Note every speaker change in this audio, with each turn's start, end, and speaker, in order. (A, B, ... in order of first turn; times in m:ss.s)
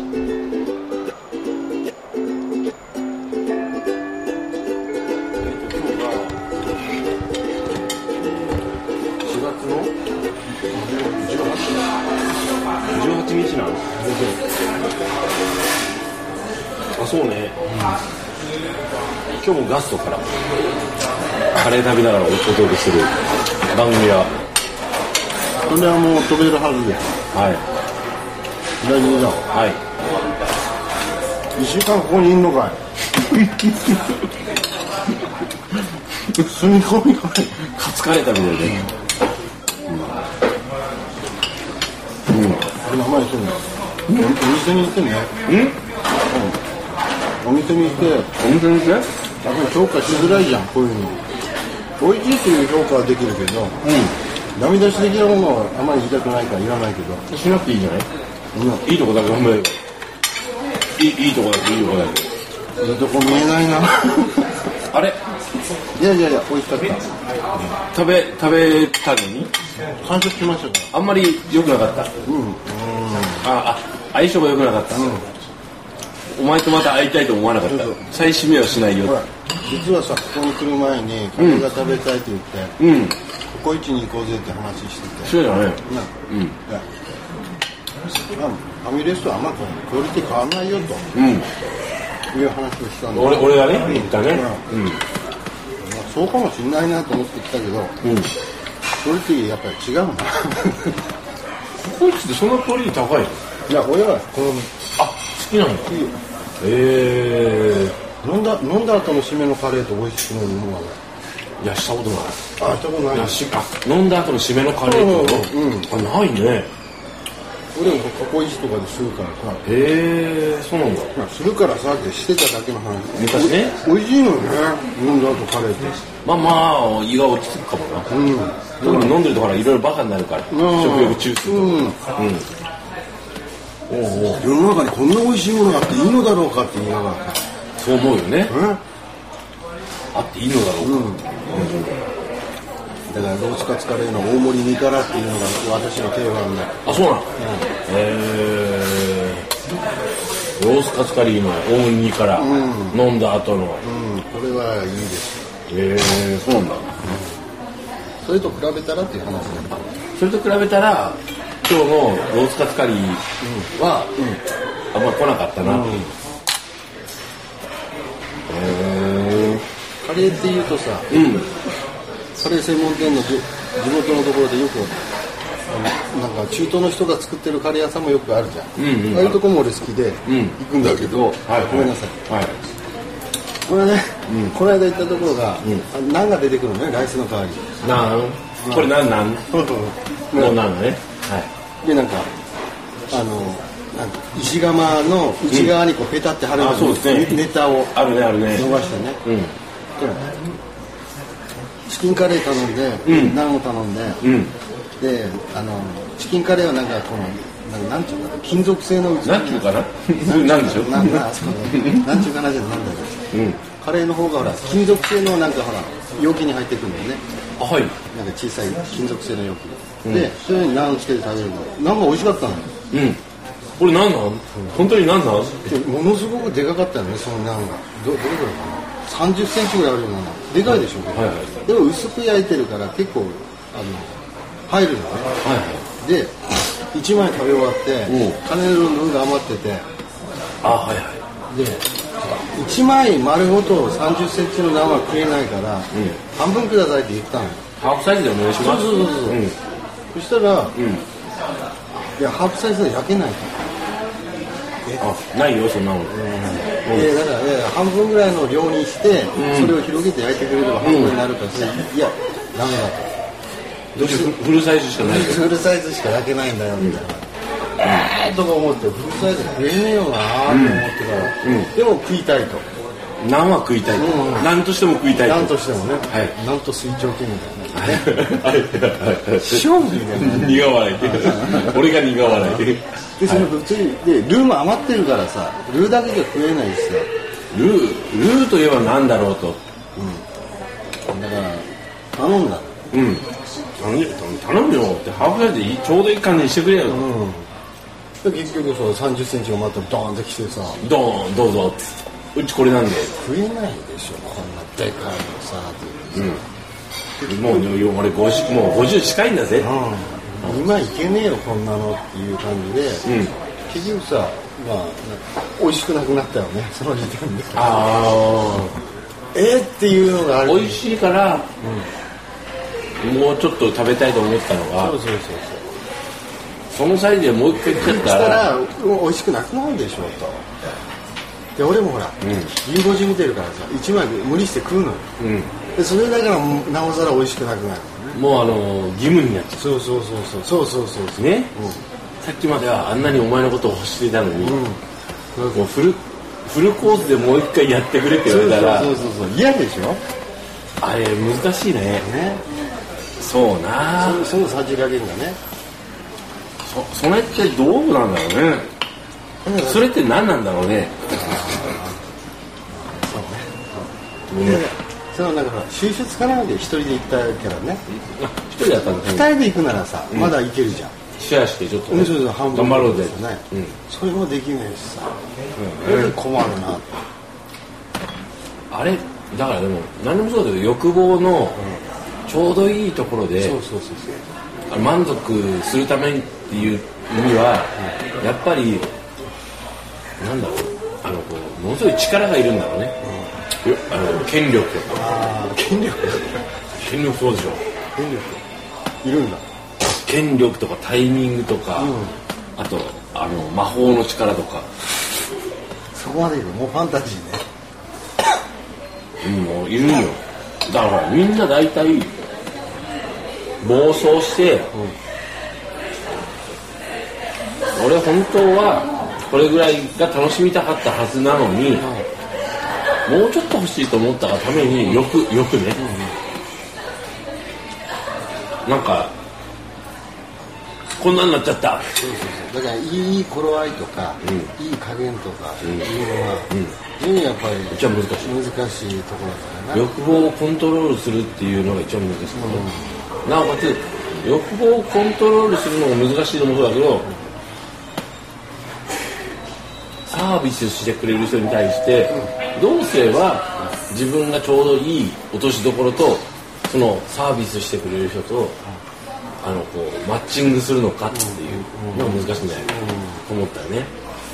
0:05.4-0:06.5 A
0:08.2-0:08.7 A
0:09.2-0:09.9 A
0:10.7-0:11.8 B
0:12.9-0:14.0 A
0:14.0-0:14.4 B
0:16.9-0:17.6 A
0:19.4-0:20.3 A
0:21.5-0:23.2 A
0:23.7-0:24.3 A
0:25.6-0:27.2 B
0:27.3-0:27.6 A
0:28.8-0:29.5 B
0:29.5-0:29.8 A
0:31.6-0:32.8 B
0:33.3-0:34.2 A
0:36.3-0:37.7 B
0:37.6-0:38.9 A
0:39.9-0:40.2 B
0:42.3-0:42.6 A
0:42.8-0:43.6 B
0:44.1-0:44.4 A
0:44.1-0:45.3 B
0:45.5-0:45.8 A
0:46.3-0:46.6 B
0:47.4-0:48.4 B
0:48.4-0:49.1 A
0:49.4-0:51.2 B
0:52.0-0:53.9 B
0:53.8-0:54.2 A
0:54.6-0:57.3 B
0:57.3-0:58.1 A
0:58.5-0:58.9 B
0:58.8-0:59.8 A
1:01.0-1:02.3 A
1:02.8-1:04.6 B
1:04.9-1:05.2 A
1:05.9-1:07.1 B
1:07.8-1:09.5 A
1:10.0-1:10.9 B
1:10.9-1:12.1 A
1:12.2-1:13.5 B
1:13.4-1:15.3 A
1:14.9-1:15.3 B
1:16.3-1:19.2 A
1:17.6-1:18.1 B
1:19.0-1:22.8 B
1:21.4-1:21.7 A
1:22.8-1:23.2 A
1:23.5-1:26.1 B
1:25.2-1:26.6 A
1:28.4-1:31.2 B
1:31.1-1:31.5 A
1:32.3-1:34.7 B
1:33.1-1:35.0 A
1:35.8-1:37.9 B
1:38.0-1:38.3 A
1:39.0-1:41.0 B
1:41.8-1:43.6 A
1:43.7-1:44.8 B
1:45.0-1:46.0 A
1:45.8-1:46.2 B
1:46.6-1:48.0 A
1:48.2-1:51.0 B
1:51.6-1:52.5 A
1:52.6-1:53.5 B
1:53.1-1:56.7 A
1:54.8-1:56.0 B
1:57.8-1:59.7 B
1:59.6-2:01.1 A
2:01.1-2:06.0 B
2:03.2-2:03.8 A
2:06.2-2:08.1 A
2:08.1-2:09.2 B
2:08.8-2:12.5 A
2:10.5-2:12.0 B
2:13.9-2:14.5 A
2:14.3-2:17.4 B
2:17.8-2:18.6 A
2:18.5-2:18.8 B
2:20.1-2:22.0 A
2:20.8-2:21.3 B
2:23.1-2:27.7 B
2:26.9-2:27.3 A
2:27.9-2:29.5 A
2:30.6-2:33.9 A
2:32.4-2:33.0 B
2:33.8-2:35.4 B
2:35.7-2:37.0 A
2:37.0-2:37.5 B
2:38.2-2:40.0 B
2:40.2-2:44.2 A
2:43.4-2:44.4 B
2:44.9-2:46.0 A
2:45.6-2:46.1 B
2:48.5-2:49.7 A
2:50.0-2:51.4 B
2:51.1-2:51.5 A
2:52.3-2:55.0 B
2:55.7-3:02.2 B
2:58.8-2:59.4 A
3:00.3-3:00.6 A
3:01.4-3:02.6 A
3:03.7-3:07.7 B
3:04.3-3:04.6 A
3:07.8-3:09.5 A
3:08.6-3:09.0 B
3:09.5-3:10.6 B
3:10.3-3:11.5 A
3:11.8-3:12.3 B
3:13.1-3:19.2 B
3:15.5-3:15.8 A
3:16.6-3:18.7 A
3:19.2-3:19.6 A
3:20.0-3:20.4 B
3:21.9-3:24.3 B
3:23.0-3:23.4 A
3:24.2-3:24.5 A
3:25.0-3:37.2 B
3:29.2-3:32.2 A
3:33.3-3:33.7 A
3:37.6-3:38.0 A
3:38.0-3:42.7 B
3:40.0-3:40.3 A
3:42.9-3:43.2 A
3:43.8-3:45.8 A
3:44.5-3:44.8 B
3:45.6-3:55.3 B
3:50.7-3:51.6 A
3:55.4-3:55.9 A
3:56.0-3:56.4 B
3:56.9-3:59.9 B
3:58.1-3:58.4 A
4:00.6-4:01.2 A
4:01.5-4:07.6 B
4:05.9-4:06.2 A
4:07.8-4:09.6 A
4:08.6-4:09.4 B
4:10.1-4:10.8 B
4:10.8-4:11.0 A
4:12.2-4:13.7 B
4:15.0-4:16.3 A
4:16.1-4:23.2 B
4:16.8-4:17.1 A
4:19.3-4:19.8 A
4:20.8-4:21.2 A
4:24.0-4:25.5 A
4:24.0-4:24.4 B
4:25.0-4:32.7 B
4:30.5-4:30.9 A
4:31.4-4:31.7 A
4:33.2-4:35.6 A
4:33.9-4:34.5 B
4:35.1-4:38.5 B
4:36.1-4:36.4 A
4:37.7-4:43.5 A
4:39.4-4:42.6 B
4:43.2-4:47.1 B
4:47.5-4:49.6 A
4:50.0-4:50.3 B
4:51.1-4:52.9 B
4:52.9-4:57.1 A
4:56.9-4:57.5 B
4:58.2-5:00.9 B
5:00.8-5:03.1 A
5:03.2-5:06.5 B
5:06.1-5:06.4 A
5:07.2-5:07.8 B
5:07.2-5:09.7 A
5:09.6-5:13.1 B
5:13.0-5:13.3 A
5:13.7-5:17.9 B
5:17.5-5:18.8 A
5:19.3-5:20.8 B
5:20.4-5:21.5 A
5:21.6-5:21.9 B
5:23.0-5:25.0 A
5:24.8-5:25.8 B
5:26.7-5:28.5 A
5:27.6-5:30.5 B
5:31.6-5:35.1 B
5:32.2-5:32.6 A
5:35.2-5:35.5 A
5:35.7-5:38.4 B
5:38.1-5:39.8 A
5:39.6-5:41.8 B
5:41.2-5:41.5 A
5:42.2-5:44.7 A
5:44.4-5:44.8 B
5:45.4-5:45.7 B
5:45.5-5:49.0 A
5:48.2-5:50.0 B
5:50.8-5:52.1 A
5:52.0-5:52.4 B
5:53.2-5:54.4 A
5:54.0-5:55.4 B
5:56.6-5:58.7 A
5:59.4-5:59.9 B
5:59.6-6:01.0 A
6:01.1-6:02.1 B
6:02.7-6:07.8 B
6:04.3-6:04.7 A
6:07.9-6:09.4 A
6:08.8-6:11.0 B
6:10.1-6:10.4 A
6:11.2-6:13.8 A
6:11.9-6:15.2 B
6:15.6-6:16.2 A
6:15.8-6:17.0 B
6:18.7-6:21.6 A
6:21.6-6:21.8 B
6:22.3-6:23.6 A
6:23.4-6:24.2 B
6:24.7-6:28.9 A
6:30.2-6:33.0 A
6:33.0-6:33.3 B
6:33.6-6:35.1 A
6:34.9-6:36.4 B
6:36.8-6:37.6 A
6:38.0-6:38.4 B
6:39.0-6:39.5 B
6:39.8-6:42.0 A
6:41.8-6:42.2 B
6:42.6-6:44.7 A
6:45.9-6:47.5 B
6:49.2-6:52.1 A
6:53.6-6:54.7 A
6:57.8-7:01.9 A
7:01.8-7:02.1 B
7:03.1-7:05.8 A
7:05.8-7:06.2 B
7:08.6-7:09.1 A
7:11.0-7:12.0 A
7:12.0-7:19.9 B
7:14.2-7:14.5 A
7:15.6-7:15.9 A
7:16.5-7:16.8 A
7:17.7-7:18.4 A
7:19.7-7:22.7 A
7:22.3-7:23.0 B
7:23.2-7:27.1 A
7:30.1-7:38.6 A
7:39.4-7:43.9 A
7:41.1-7:43.3 B